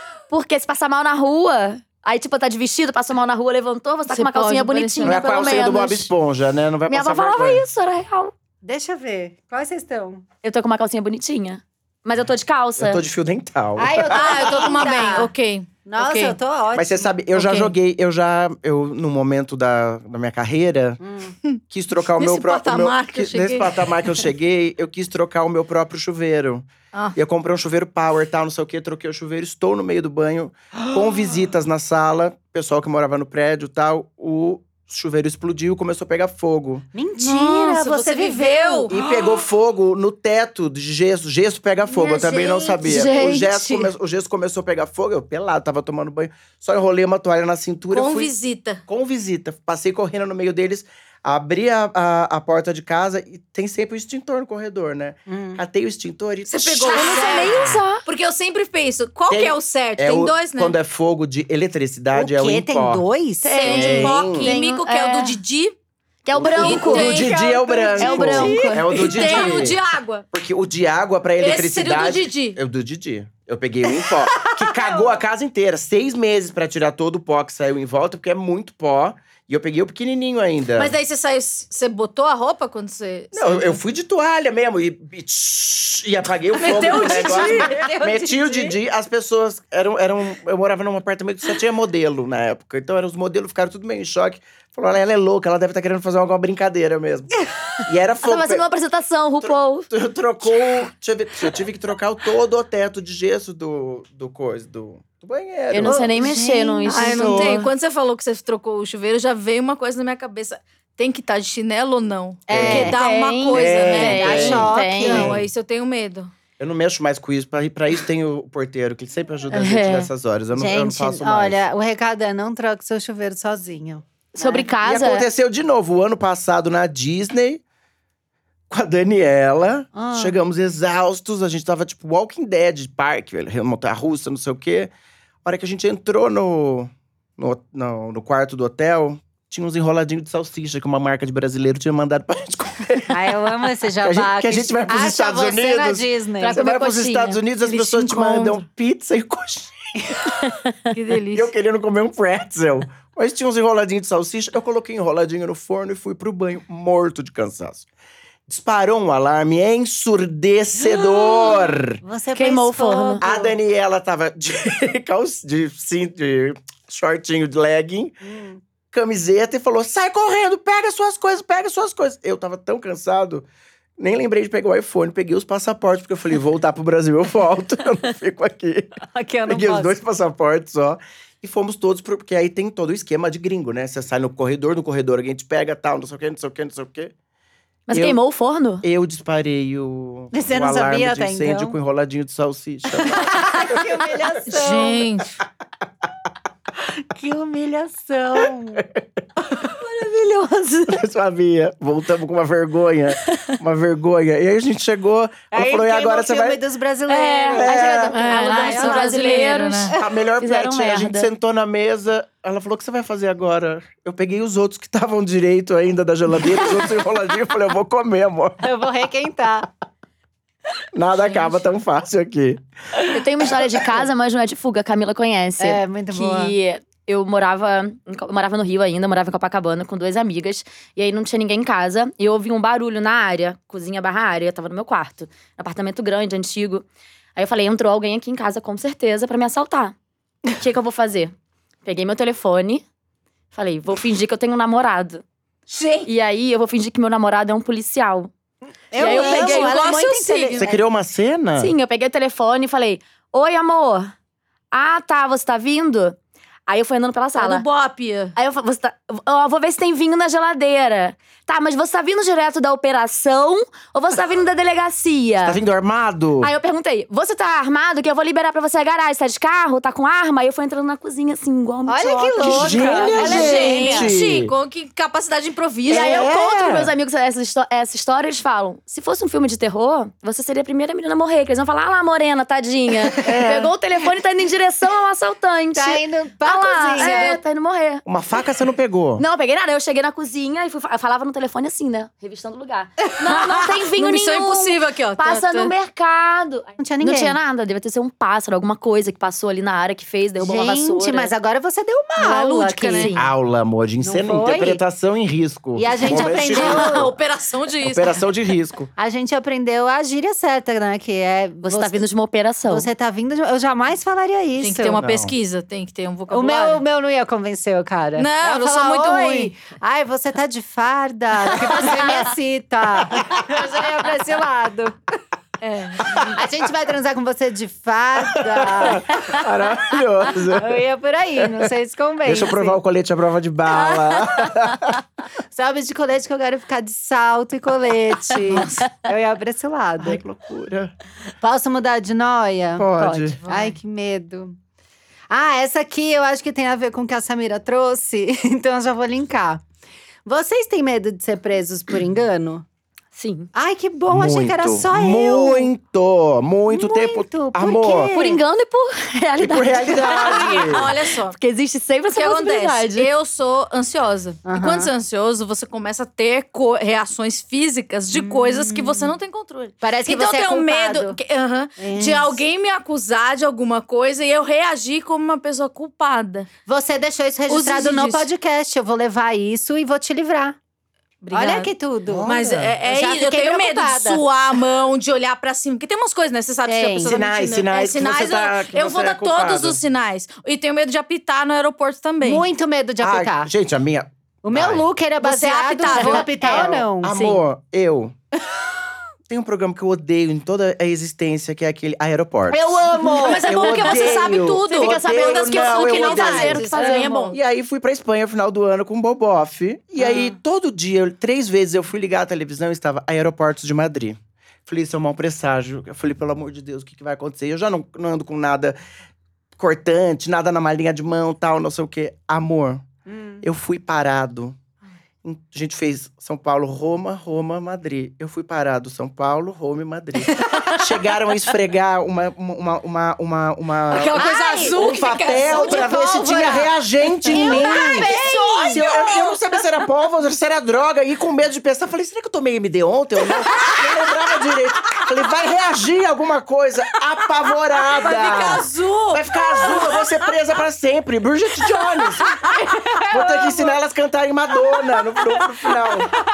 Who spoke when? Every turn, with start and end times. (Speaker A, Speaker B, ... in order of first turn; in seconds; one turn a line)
Speaker A: 0.3-6.1
Speaker B: 4.1-5.2
Speaker C: 5.0-7.6
Speaker A: 6.9-8.3
Speaker D: 8.6-10.2
Speaker A: 10.4-13.0
Speaker C: 12.8-14.6
Speaker D: 13.8-15.3
Speaker B: 14.1-16.4
Speaker D: 15.8-17.1
Speaker C: 16.7-21.0
Speaker B: 17.4-17.7
Speaker D: 21.0-21.4
Speaker B: 21.4-24.1
Speaker C: 21.7-36.9
Speaker D: 36.9-39.0
Speaker B: 37.2-38.9
Speaker C: 38.9-48.3
Speaker D: 41.9-43.9
Speaker B: 47.9-48.8
Speaker C: 48.9-57.8
Speaker D: 55.3-55.6
Speaker B: 56.5-60.8
Speaker A: 56.9-58.0
Speaker C: 59.3-63.0
Speaker D: 62.1-63.6
Speaker A: 63.4-65.4
Speaker B: 63.5-65.7
Speaker C: 63.6-64.5
Speaker A: 66.2-67.3
Speaker C: 66.3-69.8
Speaker B: 66.5-70.3
Speaker D: 67.9-69.0
Speaker A: 68.0-69.7
Speaker C: 70.3-81.0
Speaker B: 71.4-72.6
Speaker B: 80.8-83.8
Speaker C: 83.3-98.6
Speaker B: 86.5-87.9
Speaker D: 86.6-88.7
Speaker A: 98.2-99.9
Speaker C: 99.4-106.2
Speaker A: 105.7-107.7
Speaker D: 105.8-107.4
Speaker B: 106.8-116.3
Speaker C: 107.2-107.6
Speaker D: 112.5-113.0
Speaker C: 112.5-112.9
Speaker A: 112.7-115.4
Speaker C: 113.5-115.5
Speaker D: 114.0-115.3
Speaker C: 116.6-121.6
Speaker A: 119.5-120.1
Speaker D: 120.5-124.7
Speaker A: 124.4-125.2
Speaker C: 124.8-127.6
Speaker C: 128.7-134.9
Speaker D: 129.9-130.4
Speaker C: 135.4-143.2
Speaker D: 143.1-146.6
Speaker C: 144.0-150.5
Speaker A: 146.4-147.4
Speaker B: 147.7-148.6
Speaker B: 150.9-151.5
Speaker C: 151.3-157.9
Speaker C: 158.5-162.0
Speaker A: 160.9-161.6
Speaker D: 162.0-163.6
Speaker A: 162.3-163.2
Speaker C: 163.2-168.2
Speaker D: 168.2-168.6
Speaker C: 168.9-173.4
Speaker C: 174.0-187.1
Speaker D: 179.1-180.0
Speaker A: 187.9-188.8
Speaker C: 187.9-188.2
Speaker C: 188.8-193.9
Speaker D: 190.3-191.8
Speaker D: 193.0-195.1
Speaker B: 194.5-195.3
Speaker D: 197.1-198.8
Speaker C: 198.8-199.1
Speaker D: 199.4-201.0
Speaker C: 200.9-206.6
Speaker D: 205.5-210.0
Speaker A: 207.1-211.3
Speaker C: 207.5-208.2
Speaker B: 208.2-209.9
Speaker C: 209.9-218.6
Speaker D: 218.6-219.7
Speaker C: 220.9-222.6
Speaker A: 223.0-236.8
Speaker D: 225.6-226.6
Speaker A: 237.4-239.9
Speaker A: 240.5-241.3
Speaker A: 241.8-242.8
Speaker A: 243.5-245.2
Speaker B: 245.7-246.1
Speaker A: 246.1-248.3
Speaker D: 248.9-250.8
Speaker A: 248.9-250.0
Speaker B: 249.0-250.6
Speaker C: 250.6-251.7
Speaker A: 251.6-254.1
Speaker A: 254.7-257.6
Speaker B: 257.4-258.4
Speaker A: 258.4-265.6
Speaker C: 265.4-266.5
Speaker A: 266.4-274.0
Speaker D: 271.9-274.1
Speaker C: 272.4-274.5
Speaker B: 273.1-276.3
Speaker A: 275.9-288.0
Speaker C: 275.9-276.9
Speaker C: 283.2-283.7
Speaker D: 285.7-287.4
Speaker B: 287.0-287.3
Speaker C: 288.1-289.2
Speaker A: 289.2-301.3
Speaker B: 293.3-295.7
Speaker D: 296.8-297.4
Speaker D: 300.4-303.1
Speaker B: 302.2-303.2
Speaker C: 303.1-307.1
Speaker D: 304.0-304.8
Speaker D: 305.8-307.1
Speaker B: 306.1-308.2
Speaker C: 307.8-308.9
Speaker D: 309.0-312.1
Speaker A: 311.6-312.9
Speaker D: 312.7-315.0
Speaker B: 314.6-316.8
Speaker C: 315.0-315.3
Speaker D: 316.3-324.9
Speaker B: 318.2-319.5
Speaker C: 323.1-323.6
Speaker B: 325.6-326.3
Speaker C: 326.1-326.3
Speaker D: 326.1-329.4
Speaker C: 328.2-330.8
Speaker D: 330.4-332.8
Speaker C: 331.4-331.7
Speaker C: 332.2-335.0
Speaker D: 333.8-334.6
Speaker D: 335.5-340.2
Speaker B: 338.5-338.8
Speaker C: 340.0-340.9
Speaker D: 341.4-342.9
Speaker C: 342.8-343.4
Speaker A: 343.0-343.4
Speaker B: 343.4-343.8
Speaker D: 343.4-344.6
Speaker D: 345.3-349.6
Speaker D: 350.2-352.6
Speaker A: 353.1-353.5
Speaker D: 353.6-355.7
Speaker C: 354.1-358.1
Speaker D: 356.7-358.4
Speaker A: 358.1-363.1
Speaker C: 359.4-360.9
Speaker B: 360.1-361.4
Speaker B: 362.1-376.5
Speaker D: 364.4-364.9
Speaker D: 368.1-369.1
Speaker D: 369.8-371.2
Speaker D: 371.8-372.4
Speaker D: 376.6-380.6
Speaker B: 377.5-378.3
Speaker B: 381.2-381.7
Speaker D: 381.3-382.3
Speaker C: 382.1-382.8
Speaker B: 382.2-392.4
Speaker D: 382.9-384.2
Speaker D: 386.6-387.1
Speaker C: 387.0-389.8
Speaker D: 392.2-393.5
Speaker C: 393.0-394.9
Speaker D: 394.4-397.1
Speaker B: 395.2-396.4
Speaker A: 395.9-397.4
Speaker C: 396.4-398.1
Speaker C: 399.3-406.8
Speaker D: 402.5-403.4
Speaker A: 403.0-407.4
Speaker B: 403.1-407.4
Speaker D: 406.3-407.4
Speaker C: 407.3-418.8
Speaker D: 410.0-410.3
Speaker C: 419.6-422.8
Speaker D: 423.1-423.4
Speaker C: 423.4-424.6
Speaker C: 425.2-456.1
Speaker B: 430.3-430.9
Speaker B: 433.9-435.9
Speaker D: 434.1-436.7
Speaker B: 437.2-439.4
Speaker D: 437.3-438.8
Speaker B: 447.9-450.1
Speaker B: 452.2-453.1
Speaker D: 452.7-453.4